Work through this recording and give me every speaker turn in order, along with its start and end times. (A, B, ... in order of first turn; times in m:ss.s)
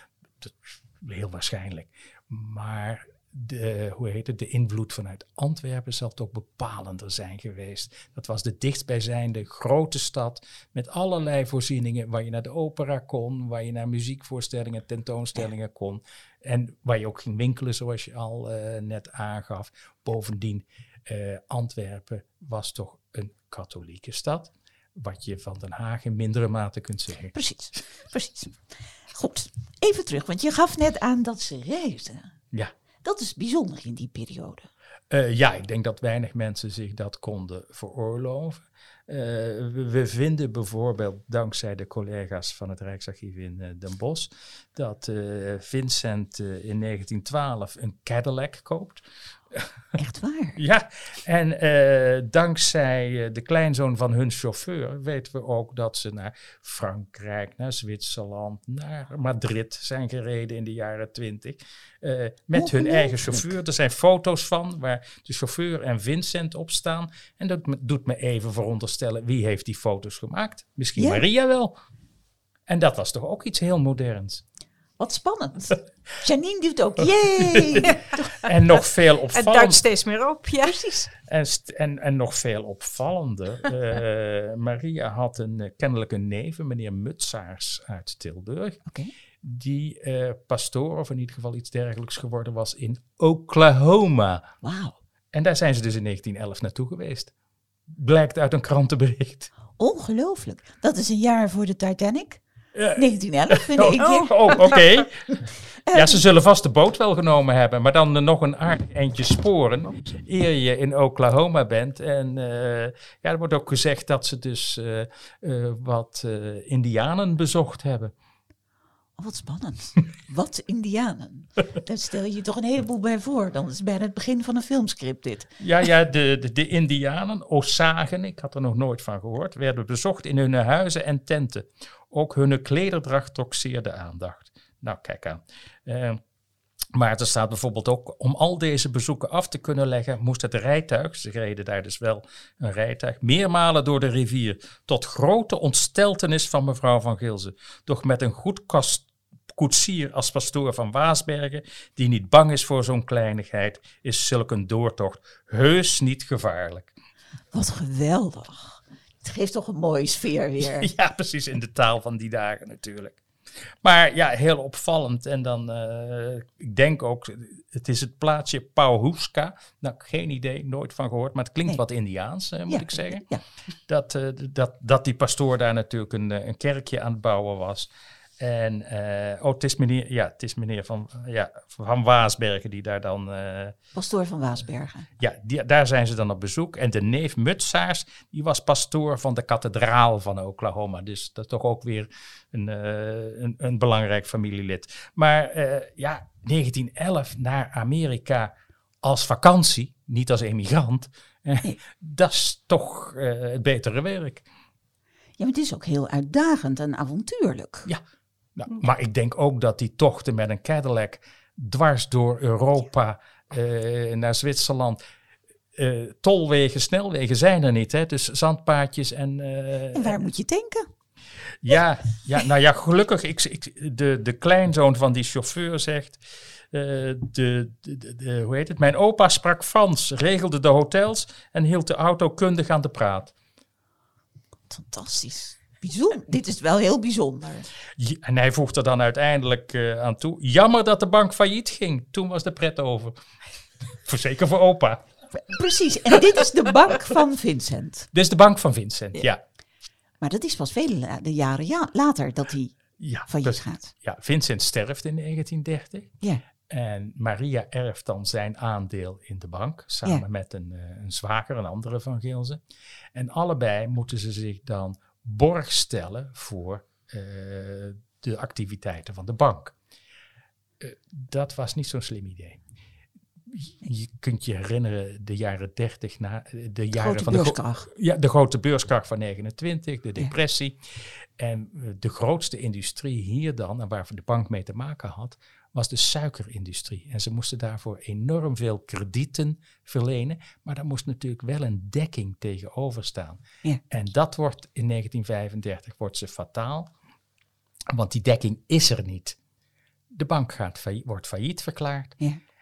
0:00.4-0:27.3 A
0:27.3-0:28.6 B
0:29.1-0:32.3 B
0:33.0-0:34.7 B
0:35.1-0:49.7 A
0:50.0-0:50.6 B
0:50.6-1:11.7 A
1:02.5-1:03.5 B
1:11.0-1:11.2 B
1:12.7-1:14.4 A
1:15.0-1:18.1 B
1:17.4-1:17.9 A
1:18.1-1:18.5 C
1:18.4-1:19.8 A
1:19.3-1:20.9 C
1:20.6-1:21.1 B
1:21.2-1:28.8 A
1:28.8-1:29.1 B
1:29.4-1:34.4 A
1:34.6-1:35.0 B
1:35.3-1:37.3 A
1:37.9-1:39.5 A
1:39.8-1:42.4 B
1:42.7-1:58.1 A
1:42.9-1:44.7 B
1:45.9-1:46.2 B
1:59.2-2:05.5 B
2:05.6-2:16.2 A
2:16.9-2:36.9 A
2:37.5-2:40.9 B
2:40.6-2:43.2 A
2:43.8-2:53.2 A
2:52.7-2:53.4 B
2:53.9-3:03.8 A
3:03.9-3:05.1 B
3:05.2-3:24.4 A
3:25.4-3:27.9 B
3:28.6-3:35.0 A
3:35.7-3:40.2 A
3:39.9-3:40.9 B
3:41.6-3:53.3 A
3:54.7-3:57.7 B
3:58.0-4:03.2 A
4:04.0-4:05.0 A
4:05.4-4:08.1 B
4:08.1-4:09.4 A
4:10.2-4:12.7 B
4:13.0-4:16.1 A
4:13.3-4:13.9 B
4:16.7-4:22.6 A
4:23.1-4:29.7 A
4:30.8-4:32.6 A
4:33.5-4:40.8 A
4:36.9-4:37.9 B
4:41.4-4:56.9 A
4:57.9-4:59.4 A
5:00.1-5:02.2 A